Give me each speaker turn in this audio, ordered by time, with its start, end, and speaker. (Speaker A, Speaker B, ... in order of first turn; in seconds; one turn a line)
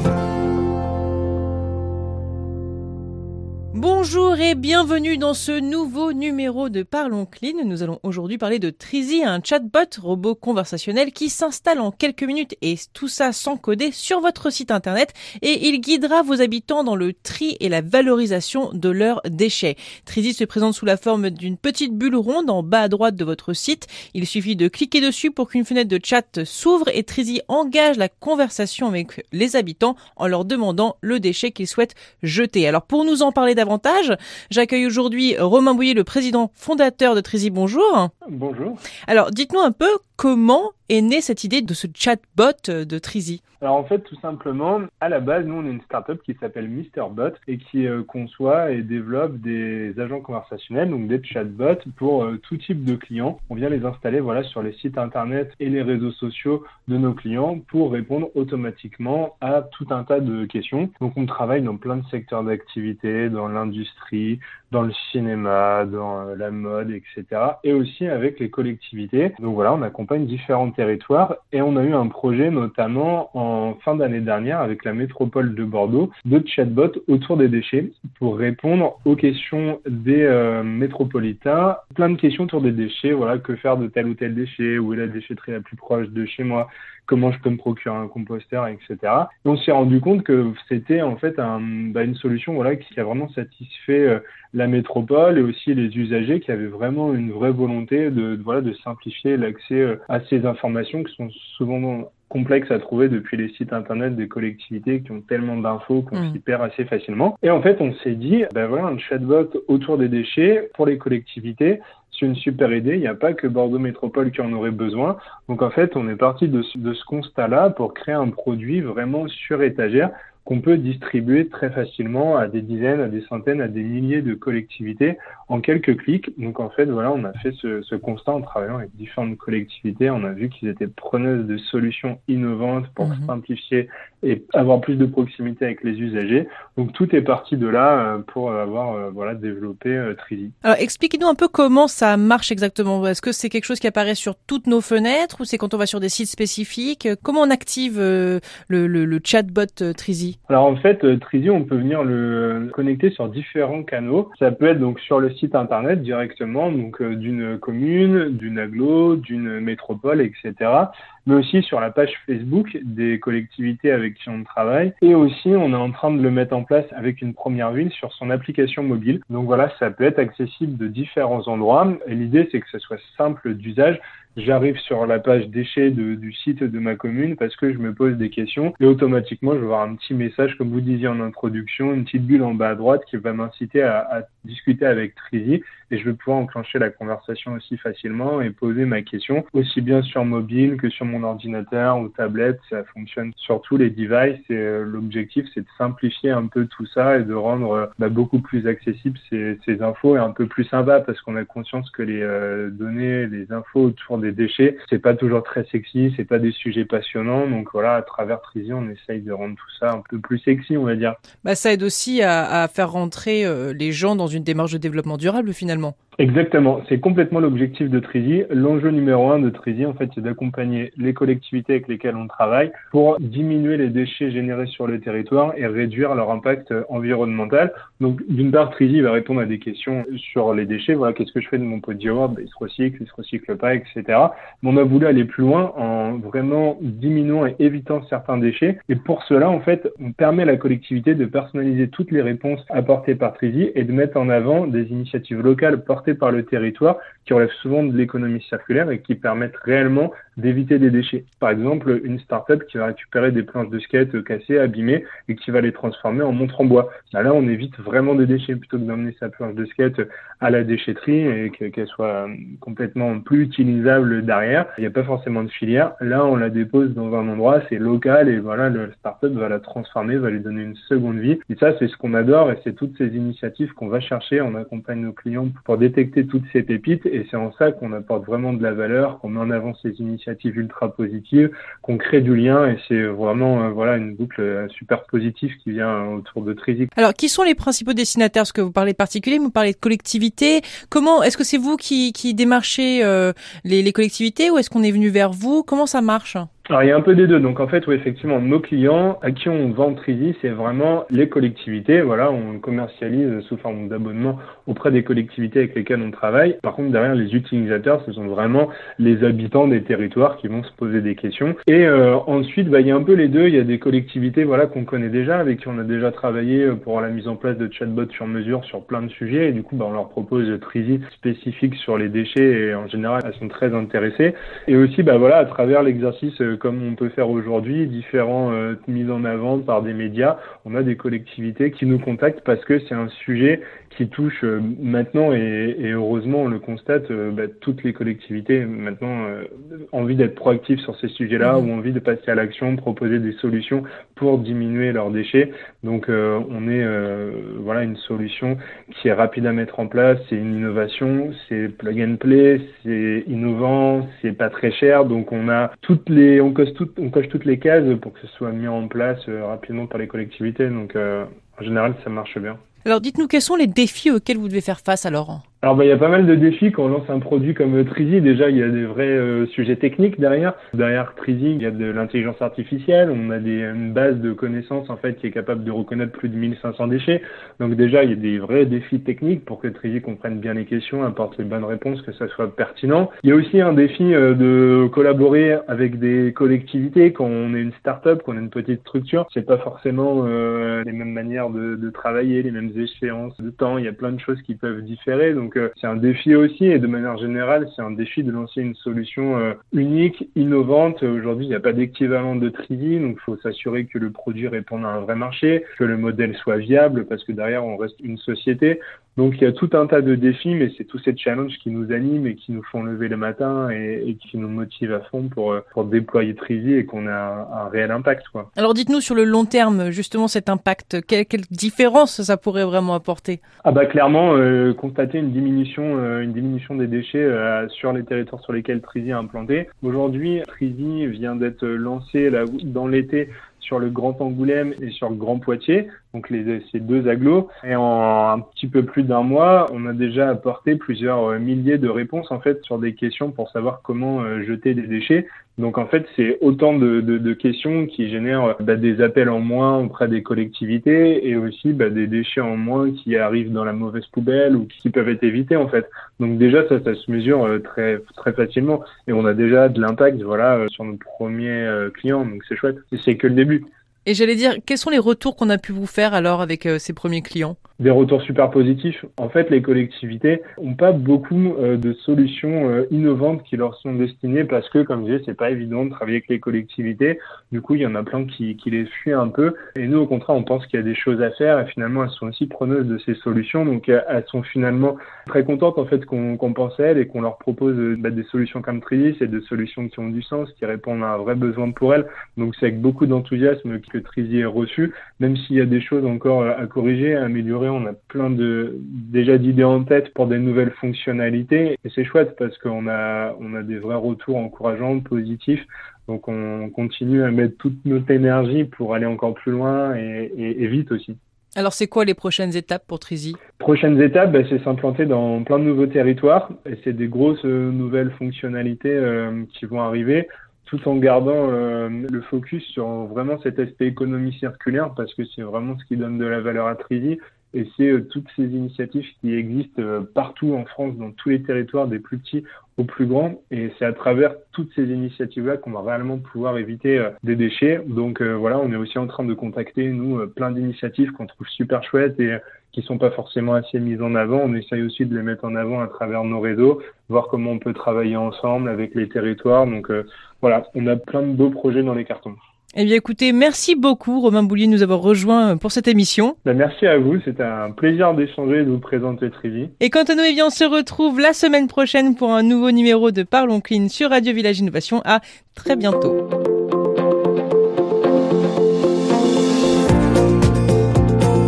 Speaker A: 3.7-38.1
Speaker B: 38.2-38.8
Speaker A: 39.1-43.4
Speaker B: 43.6-140.6
Speaker A: 133.0-133.3
Speaker A: 140.6-150.4
Speaker B: 150.5-211.2
Speaker A: 211.4-215.9
Speaker B: 216.2-286.9
Speaker A: 287.0-296.5
Speaker B: 296.7-362.6
Speaker A: 362.9-365.4
Speaker B: 365.6-418.5
Speaker A: 418.6-423.4
Speaker B: 423.6-463.7
Speaker A: 464.1-467.6
Speaker B: 467.8-511.2
Speaker A: 511.6-513.4
Speaker B: 513.6-552.4
Speaker A: 552.8-556.4
Speaker B: 556.5-559.7
Speaker A: 559.8-566.2